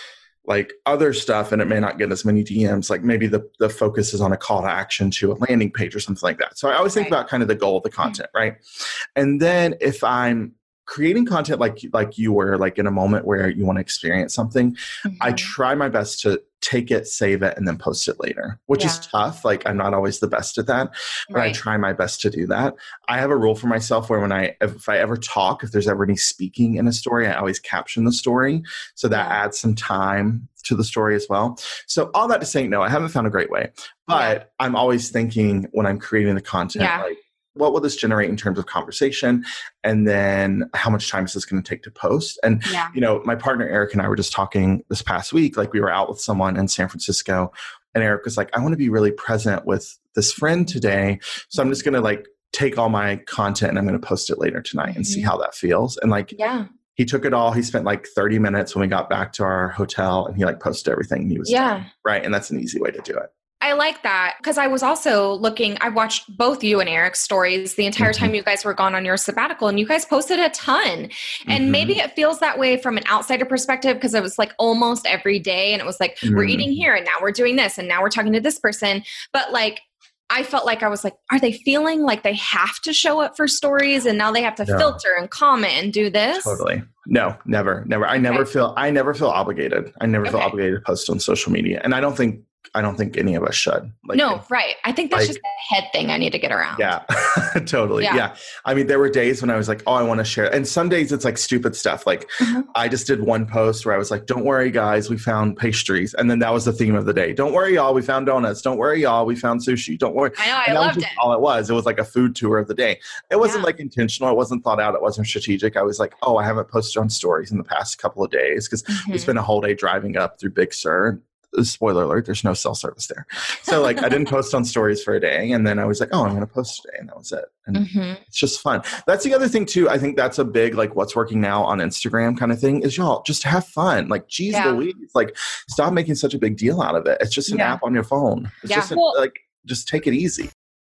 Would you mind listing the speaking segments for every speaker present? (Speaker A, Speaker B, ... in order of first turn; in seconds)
Speaker A: 0.4-8.6, 9.2-56.3, 57.0-63.3, 68.0-68.3, 71.5-72.0, 76.2-76.8, 84.6-85.0, 86.3-94.4, 95.1-95.4, 96.7-140.5
Speaker B: 15.1-15.5, 18.7-19.0, 21.3-21.6, 29.1-29.4, 34.1-34.4, 36.7-37.0, 42.6-42.9, 54.9-55.3, 56.3-56.7, 61.4-61.9, 63.6-86.6, 88.2-88.5, 90.2-90.5, 94.1-97.0, 102.4-102.7, 110.4-111.2, 113.4-113.7, 118.9-119.3, 123.7-124.2, 127.7-128.2, 134.5-134.8, 138.6-139.2